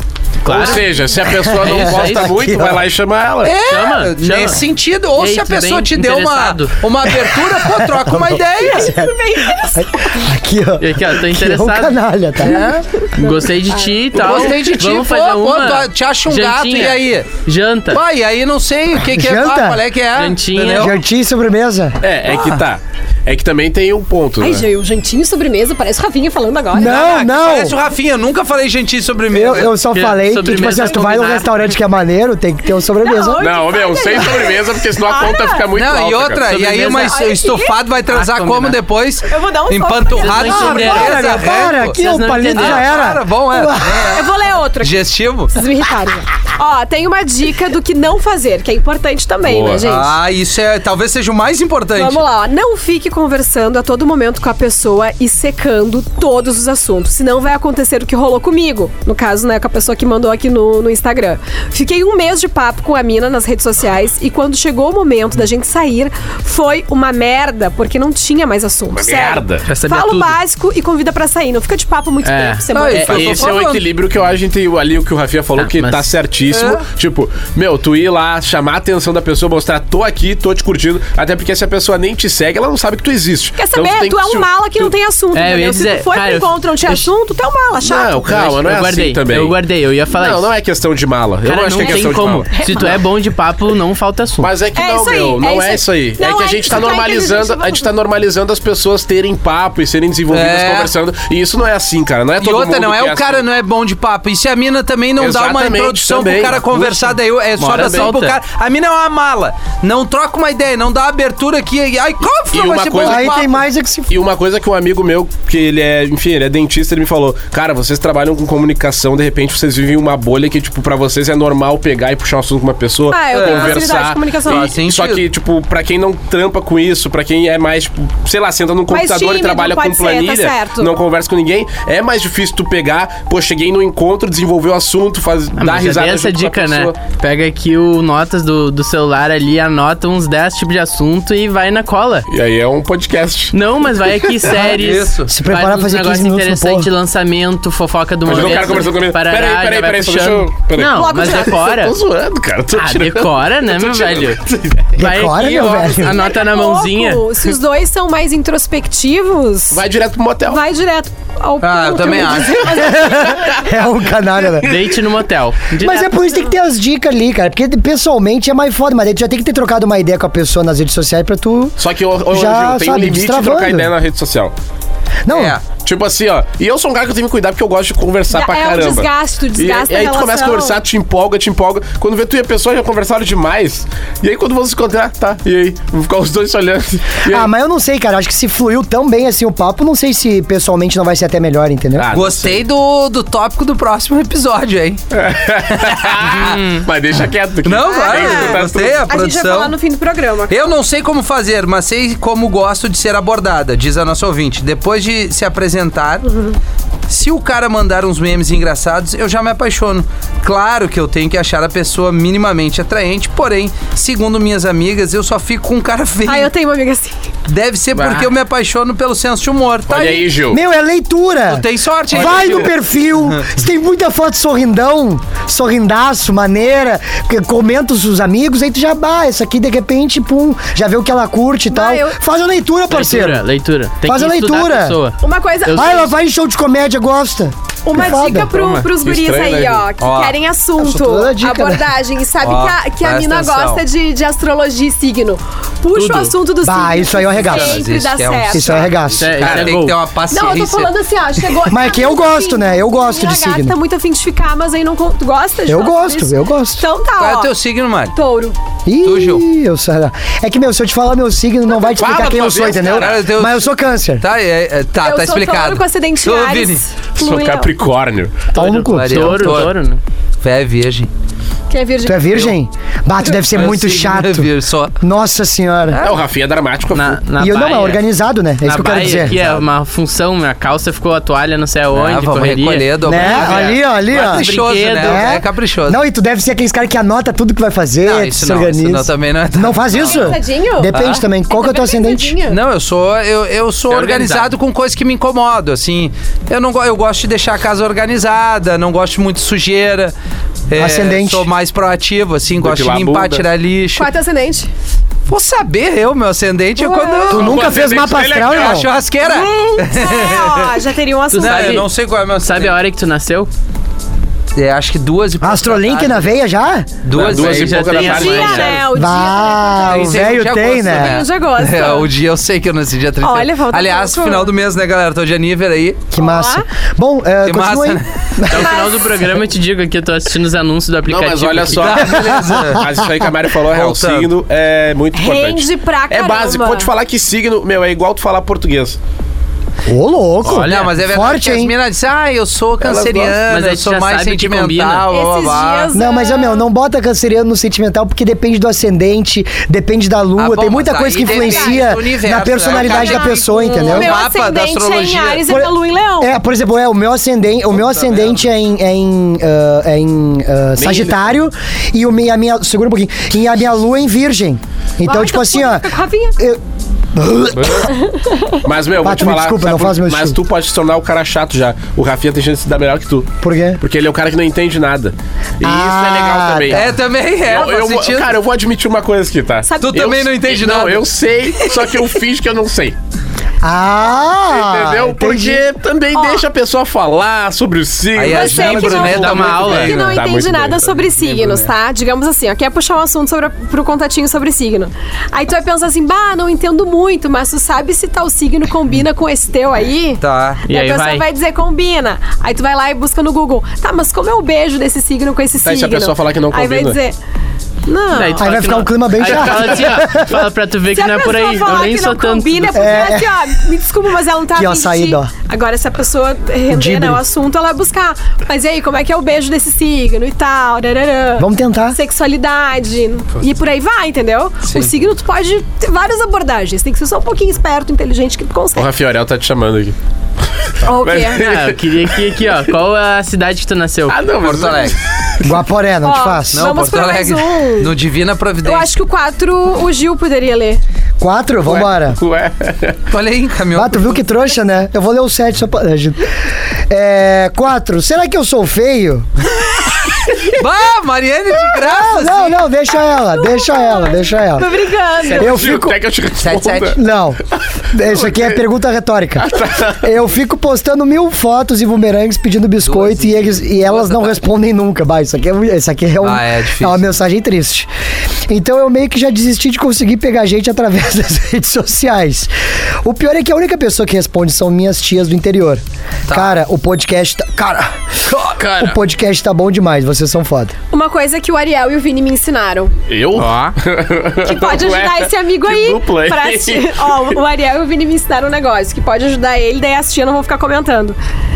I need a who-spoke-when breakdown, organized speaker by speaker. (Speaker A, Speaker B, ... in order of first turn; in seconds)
Speaker A: 0.4-0.9, 1.6-2.3, 3.6-4.6, 5.2-6.8, 10.8-11.9, 13.2-18.0, 20.1-20.9, 29.9-31.6, 38.1-38.8, 40.1-43.0, 69.7-70.4, 72.2-73.5, 75.6-76.1, 85.3-87.1, 88.3-90.5, 91.4-94.5, 107.6-108.4, 135.6-142.3, 143.5-151.9, 152.7-154.4, 154.9-157.3, 164.6-166.1, 196.4-196.8, 232.9-236.0, 245.9-246.3, 249.2-250.0, 268.5-270.0, 276.9-278.0, 278.6-285.3, 293.9-294.5, 311.3-311.9, 312.4-313.5, 317.2-318.8, 328.5-332.0, 340.4-340.9, 343.4-345.1, 389.1-390.1, 400.7-401.2, 408.1-413.1, 431.3-434.2, 478.6-479.0, 483.4-483.8
Speaker B: 0.5-3.6, 22.0-24.6, 33.4-36.7, 49.4-49.8, 68.9-69.7, 73.1-84.9, 87.8-89.6, 90.1-92.6, 94.4-103.4, 105.2-108.1, 112.5-113.4, 114.1-136.9, 142.3-143.5, 148.2-154.9, 159.7-160.6, 163.3-163.8, 164.5-164.9, 171.8-174.5, 175.7-187.5, 191.9-192.6, 195.1-199.1, 217.9-218.3, 219.9-220.6, 222.2-222.7, 238.9-239.9, 249.4-249.8, 261.8-263.2, 267.2-268.5, 276.0-277.2, 302.6-303.4, 307.3-308.8, 317.1-318.8, 331.1-339.0, 342.8-343.4, 360.8-361.2, 367.5-367.9, 368.6-376.9, 377.4-382.9, 384.5-390.9, 405.6-407.0, 409.2-410.0, 428.7-429.9, 430.9-432.3, 434.1-435.5, 441.6-443.0, 455.3-457.0, 458.1-458.6, 459.4-460.1, 483.1-487.4
Speaker C: 1.3-2.8, 7.3-12.7, 19.0-19.8, 20.7-22.0, 26.7-27.8, 29.3-33.5, 40.4-44.1, 113.0-114.1, 145.3-146.9, 155.0-156.2, 162.8-164.8, 165.8-171.8, 172.3-173.9, 175.2-175.6, 187.2-192.1, 220.5-233.4, 234.0-235.0, 235.7-238.5, 240.8-241.8, 246.6-247.8, 248.5-249.4, 251.7-253.8, 255.7-256.8, 258.9-264.2, 268.5-269.7, 272.0-276.0, 277.4-279.3, 283.1-284.4, 285.0-292.4, 300.8-301.5, 307.3-308.9, 315.4-316.9, 318.9-321.2, 326.1-328.7, 332.1-332.6, 339.9-341.7, 345.9-354.2, 355.5-366.6, 367.1-367.9, 369.0-370.4, 373.4-373.8, 375.6-376.9, 383.6-385.6, 408.4-410.5, 412.7-413.3, 414.5-415.3, 416.7-417.2, 421.4-422.0, 435.4-436.7, 441.2-442.2, 443.7-446.3, 446.9-449.3, 451.8-454.7, 455.3-456.0, 456.9-467.9, 468.5-472.5, 473.0-480.7
Speaker D: 3.4-8.9, 12.4-12.8, 14.1-17.3, 17.9-20.9, 22.3-22.6, 26.8-29.8, 35.7-42.0, 42.5-45.6, 49.8-52.2, 72.7-73.9, 76.5-76.8, 100.3-100.9, 102.4-113.6, 123.3-123.9, 124.5-125.2, 144.8-145.3, 161.6-162.8, 175.3-175.6, 192.1-195.0, 195.7-196.6, 197.6-199.7, 200.5-206.2, 207.1-216.5, 217.5-220.3, 221.5-222.7, 240.0-240.4, 242.4-243.8, 247.4-250.9, 257.2-258.1, 259.0-259.4, 262.9-266.8, 268.9-269.7, 270.4-271.1, 273.5-274.9, 275.9-276.2, 279.0-279.6, 281.9-286.0, 288.0-290.4, 290.9-291.2, 292.5-300.1, 300.7-304.1, 305.3-307.6, 308.4-310.7, 311.4-312.8, 314.5-316.3, 317.0-318.1, 319.8-326.0, 327.4-328.1, 331.7-332.9, 333.7-334.3, 340.5-345.9, 350.4-355.5, 357.8-358.4, 376.7-378.3, 379.8-381.1, 381.6-382.1, 388.1-390.1, 391.0-391.7, 400.2-400.6, 424.6-424.9, 434.4-434.9, 436.5-438.9, 443.1-444.2, 450.5-452.6, 456.4-457.0, 462.8-464.4, 466.2-467.0, 476.3-476.6
Speaker E: 8.6-10.2, 13.0-13.8, 24.4-27.3, 33.0-35.7, 36.8-37.8, 39.3-41.1, 44.1-45.0, 45.5-50.1, 51.9-73.5, 83.6-88.6, 91.8-93.0, 94.7-97.9, 123.1-124.7, 128.9-130.9, 150.8-151.6, 155.8-159.8, 160.5-163.7, 178.3-180.8, 197.9-200.8, 206.2-206.6, 216.2-217.2, 231.7-232.2, 235.2-236.1, 237.8-248.9, 250.3-257.5, 258.1-258.6, 265.0-267.7, 271.7-272.5, 289.9-291.0, 291.5-292.6, 303.9-304.7, 306.8-307.5, 309.2-311.8, 317.9-322.1, 323.2-324.5, 326.2-326.6, 328.5-329.1, 335.1-336.9, 345.1-346.6, 351.2-351.9, 352.7-356.3, 365.0-366.3, 367.9-368.6, 379.6-380.1, 386.1-386.4, 388.2-407.2, 407.9-408.5, 410.9-428.9, 430.8-431.4, 436.0-437.9, 438.6-440.8, 452.9-455.6, 480.9-482.9, 484.4-491.2